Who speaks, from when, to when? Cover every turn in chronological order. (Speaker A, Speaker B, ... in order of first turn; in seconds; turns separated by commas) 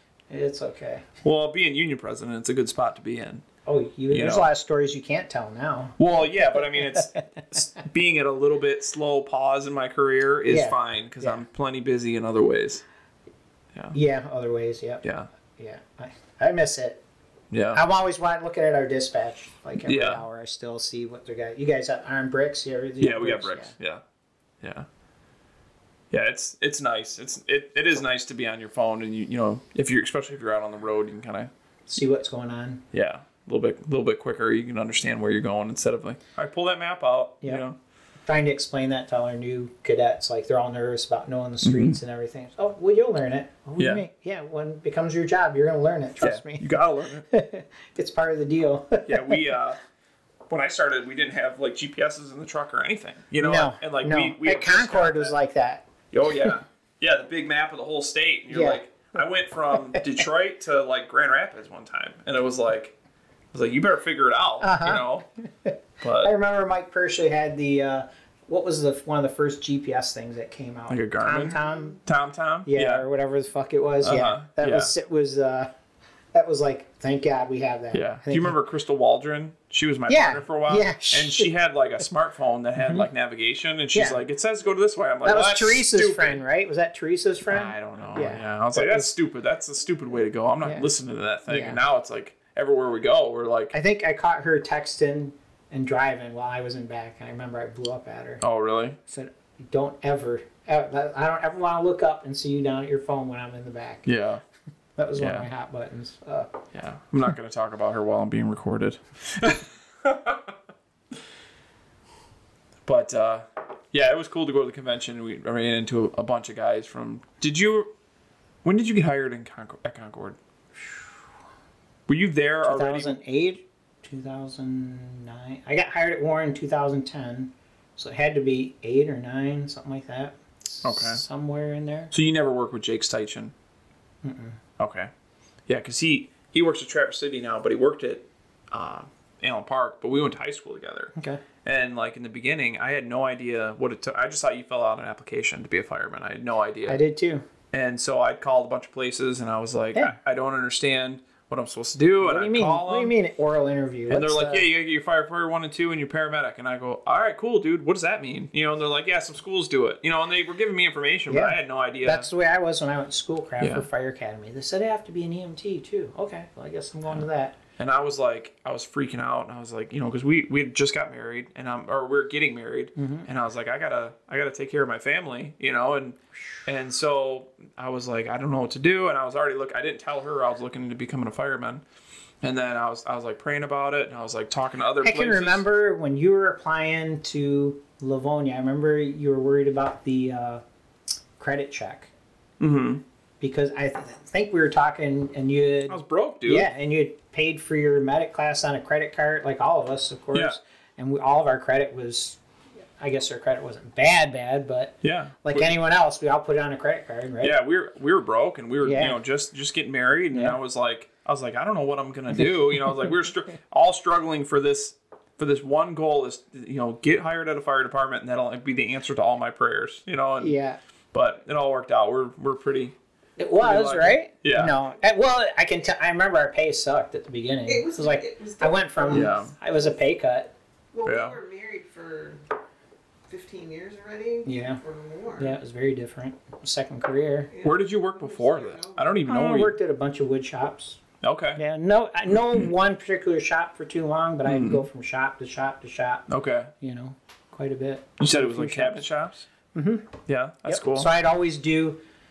Speaker A: 0.3-1.1, Speaker B: 1.2-3.4, Speaker A: 3.6-6.0, Speaker B: 4.1-4.5, Speaker B: 6.0-12.8, Speaker A: 10.5-11.4, Speaker A: 13.9-15.0, Speaker B: 15.0-15.3, Speaker A: 15.6-17.0, Speaker B: 17.5-17.8, Speaker A: 17.7-23.7, Speaker B: 19.8-20.2, Speaker B: 23.0-24.0, Speaker B: 24.6-24.9, Speaker B: 26.1-31.5, Speaker A: 31.9-32.8, Speaker B: 32.9-37.8, Speaker A: 38.2-46.7, Speaker B: 41.6-42.0, Speaker B: 43.8-44.0, Speaker B: 46.2-47.2, Speaker A: 47.3-49.4, Speaker B: 49.0-49.8, Speaker B: 50.5-55.3, Speaker A: 53.4-56.5, Speaker B: 56.1-63.0, Speaker A: 58.5-58.8, Speaker B: 63.5-65.3, Speaker A: 64.6-72.0, Speaker B: 66.0-66.3, Speaker B: 70.9-73.0, Speaker A: 72.7-75.7, Speaker B: 74.0-74.9, Speaker A: 76.3-78.5, Speaker B: 77.9-86.4, Speaker A: 80.1-81.5, Speaker A: 82.8-83.0, Speaker A: 83.9-84.2, Speaker A: 85.2-89.1, Speaker B: 87.5-93.7, Speaker A: 90.6-90.9, Speaker A: 91.5-91.8, Speaker A: 93.7-98.4, Speaker B: 98.4-99.0, Speaker A: 99.1-104.1, Speaker B: 104.0-104.4, Speaker A: 105.0-106.5, Speaker B: 105.2-105.5, Speaker B: 106.7-110.5, Speaker B: 112.8-117.9, Speaker B: 118.6-120.4, Speaker B: 122.1-123.2, Speaker A: 122.6-132.1, Speaker B: 130.8-131.2, Speaker B: 132.1-133.5, Speaker A: 134.2-134.6, Speaker B: 134.8-135.1, Speaker B: 135.7-147.0, Speaker A: 141.2-141.4, Speaker A: 146.8-147.4, Speaker B: 147.7-153.1, Speaker A: 152.2-154.7, Speaker B: 154.1-162.3, Speaker A: 161.3-167.6, Speaker B: 163.6-163.9, Speaker B: 167.8-181.8, Speaker A: 173.0-173.3, Speaker B: 182.4-185.6, Speaker A: 185.0-190.6, Speaker A: 191.4-192.1, Speaker B: 192.6-193.0, Speaker A: 193.4-202.4, Speaker B: 195.9-196.7, Speaker A: 203.0-207.6, Speaker B: 205.0-205.7, Speaker B: 207.4-220.6, Speaker A: 208.8-209.2, Speaker A: 210.3-210.6, Speaker A: 220.4-220.8, Speaker B: 221.1-222.9, Speaker A: 223.4-230.5, Speaker B: 223.6-224.7, Speaker C: 227.7-229.3, Speaker B: 229.1-229.5, Speaker C: 230.9-232.4, Speaker B: 231.0-231.4, Speaker C: 233.3-235.6, Speaker A: 234.4-234.8, Speaker A: 235.4-237.5, Speaker C: 237.5-239.3, Speaker B: 237.6-239.8, Speaker A: 239.2-241.0, Speaker B: 241.2-241.6, Speaker A: 241.6-246.2, Speaker B: 244.4-244.8, Speaker B: 246.3-246.7, Speaker A: 246.8-249.0, Speaker B: 248.2-249.4, Speaker A: 249.7-250.1, Speaker B: 250.2-251.1, Speaker A: 250.6-252.0